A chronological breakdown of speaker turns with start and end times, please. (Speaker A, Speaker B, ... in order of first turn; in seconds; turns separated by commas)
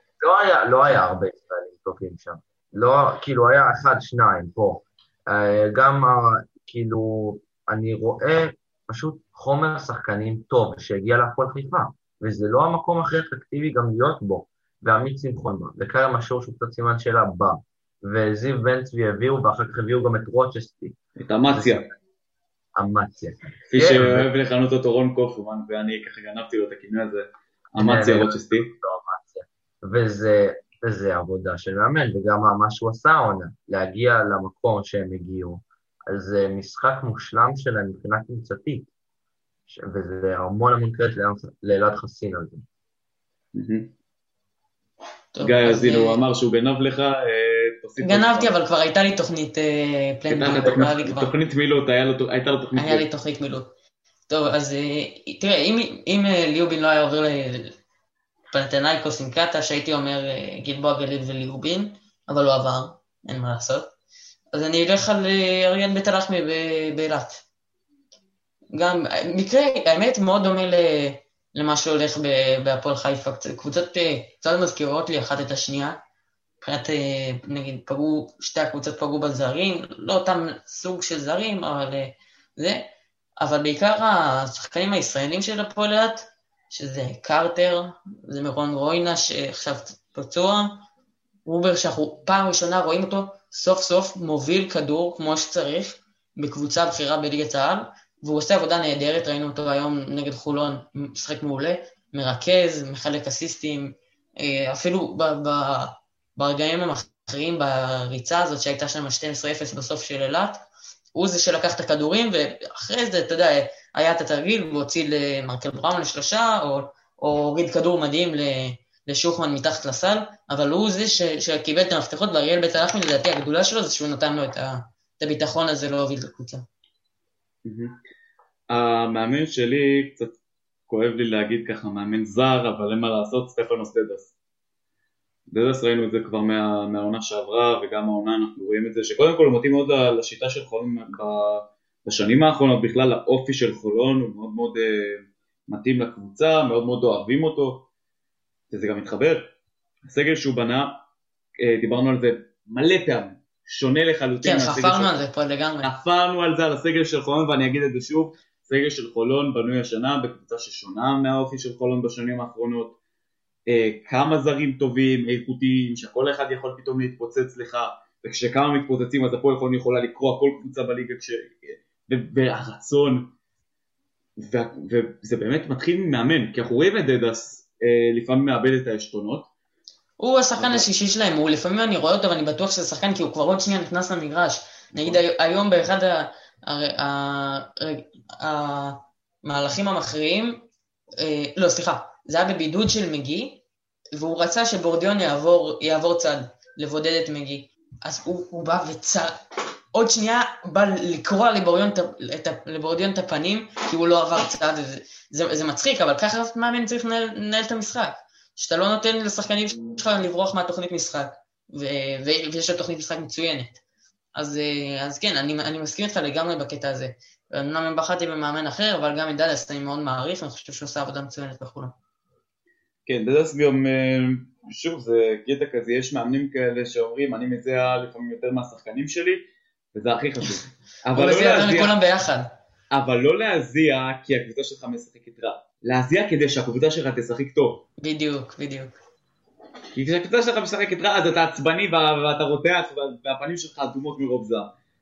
Speaker A: 0.2-21.0, Speaker B: 21.1-21.9, Speaker A: 21.5-21.9, Speaker A: 22.8-24.3, Speaker B: 23.7-28.7, Speaker A: 27.8-38.9, Speaker A: 39.7-42.6, Speaker B: 43.5-43.9, Speaker C: 45.3-46.2, Speaker B: 45.4-48.5, Speaker C: 48.0-51.3, Speaker B: 50.3-53.0, Speaker C: 52.8-53.7, Speaker C: 54.3-57.8, Speaker C: 58.5-63.9, Speaker C: 64.5-67.4, Speaker C: 68.7-76.0, Speaker C: 76.6-82.8, Speaker C: 83.4-90.8, Speaker C: 91.5-126.6, Speaker B: 127.7-128.0, Speaker B: 128.7-130.3, Speaker B: 130.9-134.3, Speaker B: 135.5-147.9, Speaker B: 148.7-149.5, Speaker B: 150.0-150.9, Speaker B: 151.6-155.1, Speaker C: 154.4-155.9, Speaker B: 155.8-162.9, Speaker B: 163.7-173.3, Speaker B: 174.4-179.5, Speaker C: 180.2-190.6, Speaker B: 180.6-180.9, Speaker B: 184.9-185.2, Speaker C: 191.2-193.6, Speaker C: 194.1-199.3, Speaker C: 199.9-213.8, Speaker C: 214.3-221.9, Speaker B: 223.1-231.9, Speaker C: 231.1-232.5, Speaker B: 232.9-237.8, Speaker C: 238.0-238.9, Speaker B: 239.9-244.7